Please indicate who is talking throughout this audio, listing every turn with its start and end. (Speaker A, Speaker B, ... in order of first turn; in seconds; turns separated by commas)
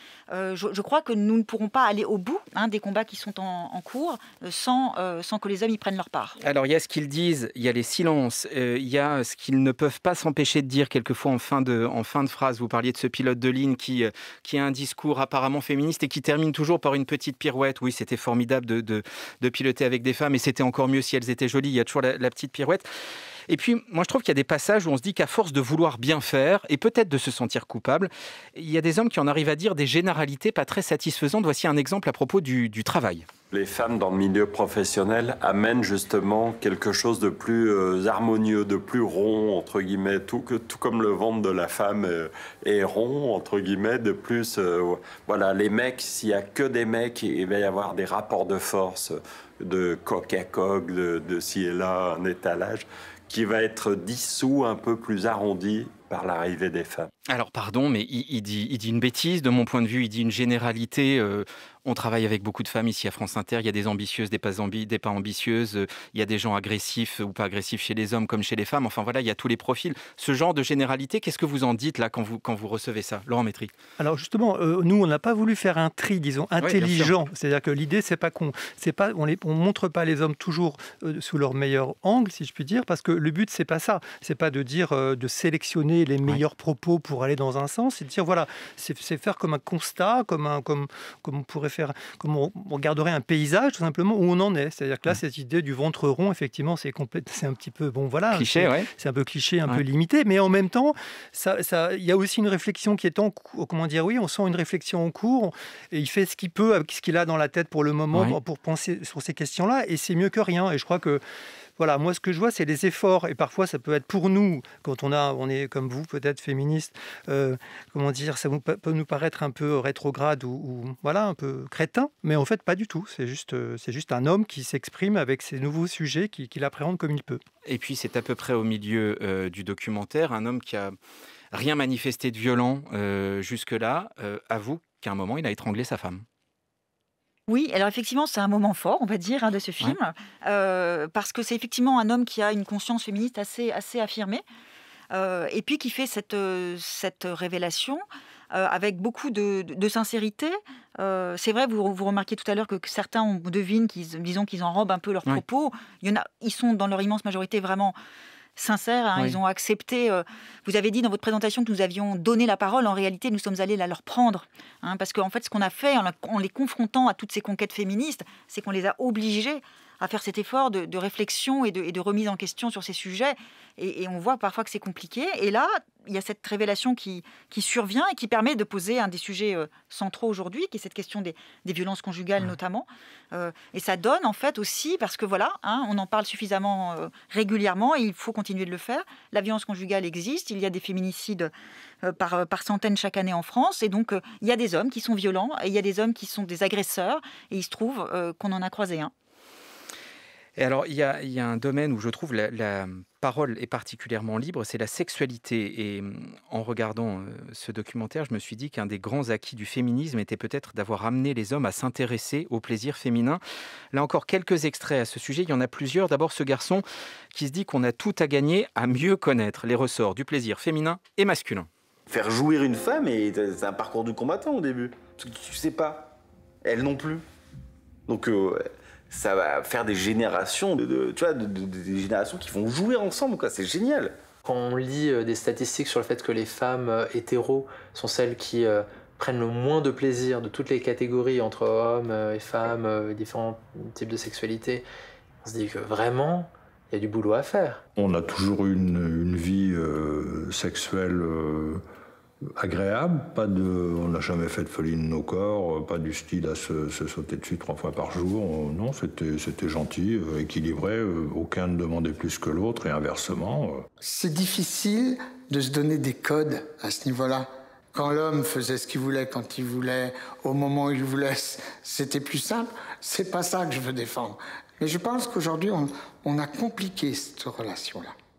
Speaker A: 0.3-6.4, Speaker B: 6.4-22.9, Speaker B: 23.5-33.3, Speaker C: 33.5-57.1, Speaker B: 57.3-73.7, Speaker D: 74.0-111.2, Speaker B: 76.6-77.1, Speaker B: 98.3-98.9, Speaker D: 111.8-127.4, Speaker B: 127.7-131.0, Speaker B: 131.5-136.2, Speaker A: 137.5-144.4, Speaker A: 145.1-158.0, Speaker A: 158.6-191.5, Speaker A: 192.0-199.1, Speaker B: 200.6-213.4, Speaker B: 213.9-221.7, Speaker E: 222.1-227.2, Speaker E: 228.1-234.2, Speaker F: 234.4-244.8, Speaker F: 245.4-247.8, Speaker G: 248.0-251.8, Speaker G: 252.6-263.9, Speaker H: 264.0-278.1